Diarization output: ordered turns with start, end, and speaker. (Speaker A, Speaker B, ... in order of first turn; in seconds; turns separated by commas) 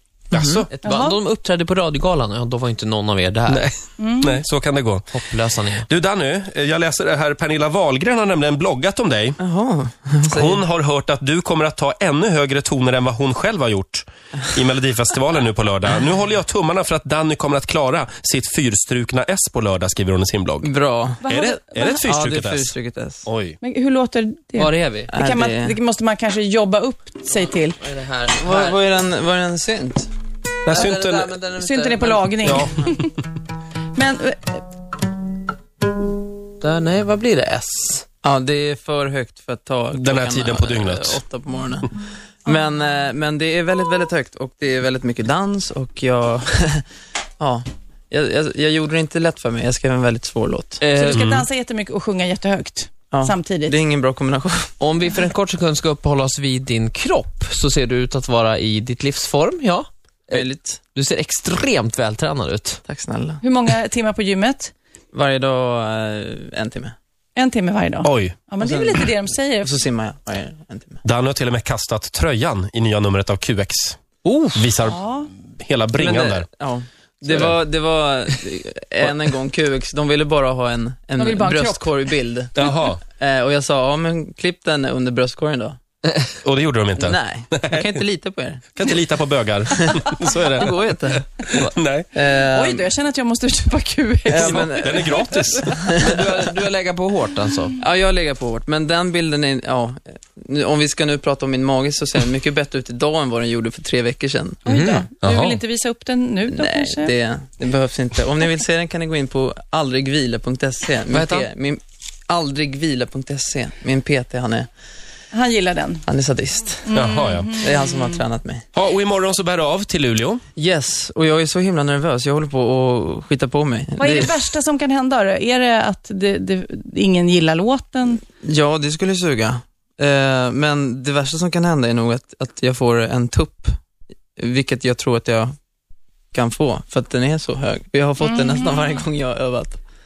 Speaker A: 0.3-0.7, Speaker B: 0.3-0.6, Speaker C: 0.7-3.7, Speaker D: 0.8-1.2, Speaker A: 3.5-5.2, Speaker D: 4.0-4.4, Speaker C: 5.1-5.9, Speaker A: 5.8-9.4, Speaker B: 9.4-10.6, Speaker A: 10.3-20.7, Speaker B: 20.6-21.2, Speaker D: 21.2-22.0, Speaker A: 21.2-22.7, Speaker B: 22.0-23.3, Speaker A: 23.2-23.6, Speaker D: 23.6-27.8, Speaker C: 24.6-25.1, Speaker B: 25.1-25.8, Speaker C: 27.4-28.8, Speaker B: 28.4-30.1, Speaker A: 30.6-31.3, Speaker C: 30.7-32.6, Speaker D: 31.6-33.1, Speaker A: 32.4-33.0, Speaker D: 33.9-34.6, Speaker C: 36.6-38.0, Speaker B: 38.2-46.8, Speaker A: 39.9-41.2, Speaker B: 47.4-50.8, Speaker C: 50.8-51.5, Speaker D: 50.9-53.7, Speaker B: 53.1-54.7, Speaker C: 54.8-62.8, Speaker B: 60.3-60.8, Speaker B: 62.9-63.4, Speaker D: 63.4-64.7, Speaker B: 65.1-66.9, Speaker D: 67.3-69.8, Speaker A: 68.0-68.4, Speaker B: 68.6-69.0, Speaker B: 69.6-71.0, Speaker A: 71.0-74.0, Speaker C: 74.2-74.6, Speaker A: 74.5-76.5, Speaker D: 74.8-75.3, Speaker B: 76.0-82.5, Speaker D: 81.2-81.9, Speaker A: 82.5-83.0, Speaker B: 83.1-85.8, Speaker A: 86.4-87.9, Speaker B: 87.0-88.7, Speaker A: 88.7-92.1, Speaker B: 89.8-91.3, Speaker B: 92.1-92.9, Speaker D: 92.4-95.3, Speaker B: 94.3-96.2, Speaker A: 94.4-96.0, Speaker C: 96.0-97.8, Speaker B: 97.8-104.7, Speaker C: 104.6-105.1, Speaker D: 104.7-107.1, Speaker A: 105.2-105.6, Speaker B: 106.5-114.7, Speaker C: 111.1-111.5, Speaker D: 115.3-116.0, Speaker B: 116.1-116.9, Speaker D: 116.8-118.2, Speaker A: 116.9-117.7, Speaker B: 117.6-118.7, Speaker A: 118.7-120.4, Speaker B: 120.5-124.4, Speaker D: 124.0-128.2, Speaker B: 128.4-133.7, Speaker B: 134.4-135.6, Speaker B: 136.3-139.8, Speaker D: 138.2-139.0